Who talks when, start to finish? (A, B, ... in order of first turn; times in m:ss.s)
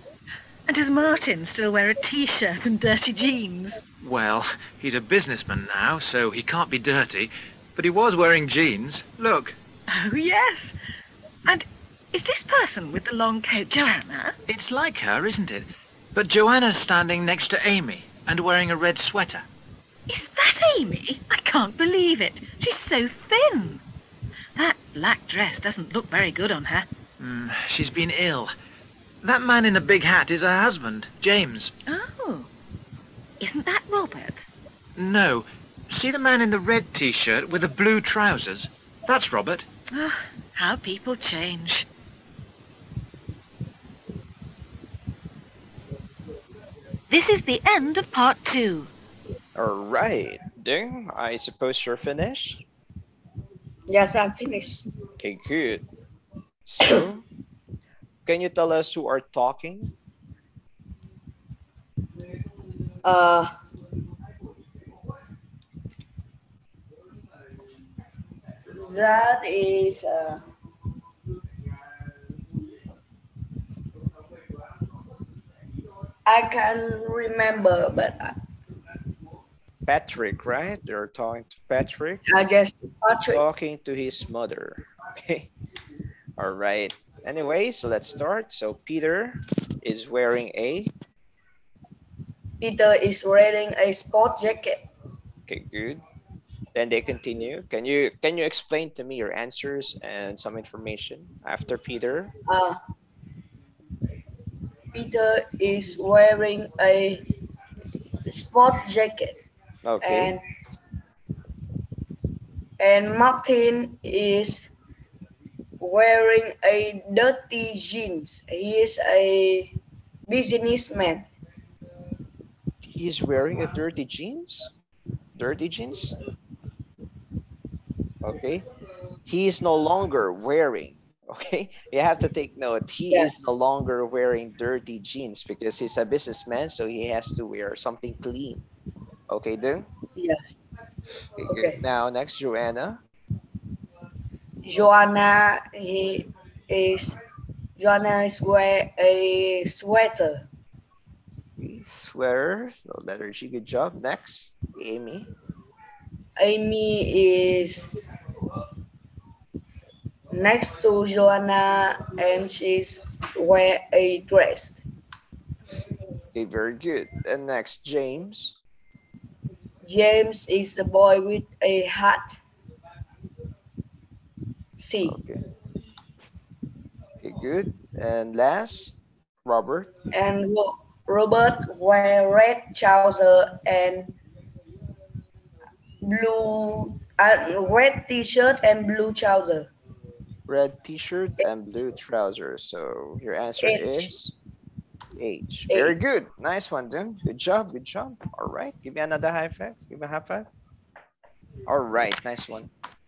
0:00.7-0:03.8 A
0:04.0-0:09.6 B
0:09.9-0:10.8 A
0:11.4-0:14.4 A
0:14.5-0:19.4 B
0:20.1-0:23.8 A
0:24.6-0:26.9 A
0:27.2-0:28.5 B
0:29.2-0:31.7 B
0:31.9-0:32.5 A
0:33.4-0:34.4 A
0:35.0-0:39.7 B
0:39.9-0:41.9 A
0:47.1-0:48.9 A
0:49.6-0:52.6 C
0:53.9-0:54.9 D
0:55.2-0:55.9 C
0:56.7-0:57.2 C
0:58.3-0:59.9 C
1:03.0-1:03.5 D
1:08.7-1:10.4 D
1:16.3-1:18.4 D
1:19.9-1:22.2 C
1:22.3-1:23.4 D
1:23.3-1:25.5 C
1:26.4-1:30.9 C
1:32.6-1:34.9 D
1:35.5-1:36.0 C
1:36.7-1:42.3 C
1:42.5-1:42.8 D
1:44.9-1:47.3 D
1:48.3-1:49.4 D
1:49.8-1:50.4 C
1:50.0-1:50.4 D
1:52.8-1:54.7 D
1:55.8-1:59.7 D
2:00.3-2:01.3 D
2:02.8-2:04.7 C
2:05.4-2:06.1 C
2:08.2-2:08.6 C
2:09.3-2:18.6 C
2:13.1-2:13.5 D
2:19.3-2:19.9 C
2:20.2-2:20.6 D
2:21.4-2:23.0 C
2:21.5-2:21.8 D
2:24.6-2:27.2 D
2:27.8-2:30.5 D
2:31.6-2:35.3 C
2:36.4-2:37.9 D
2:40.3-2:44.8 D
2:46.3-2:48.6 C
2:49.8-2:52.4 D
2:54.8-2:55.2 D
2:55.0-2:55.4 C
2:57.2-2:59.9 C
3:00.1-3:04.2 D
3:06.0-3:09.7 D
3:10.5-3:14.3 C
3:13.6-3:14.1 D
3:15.2-3:20.5 C
3:15.7-3:16.0 D
3:21.7-3:22.7 C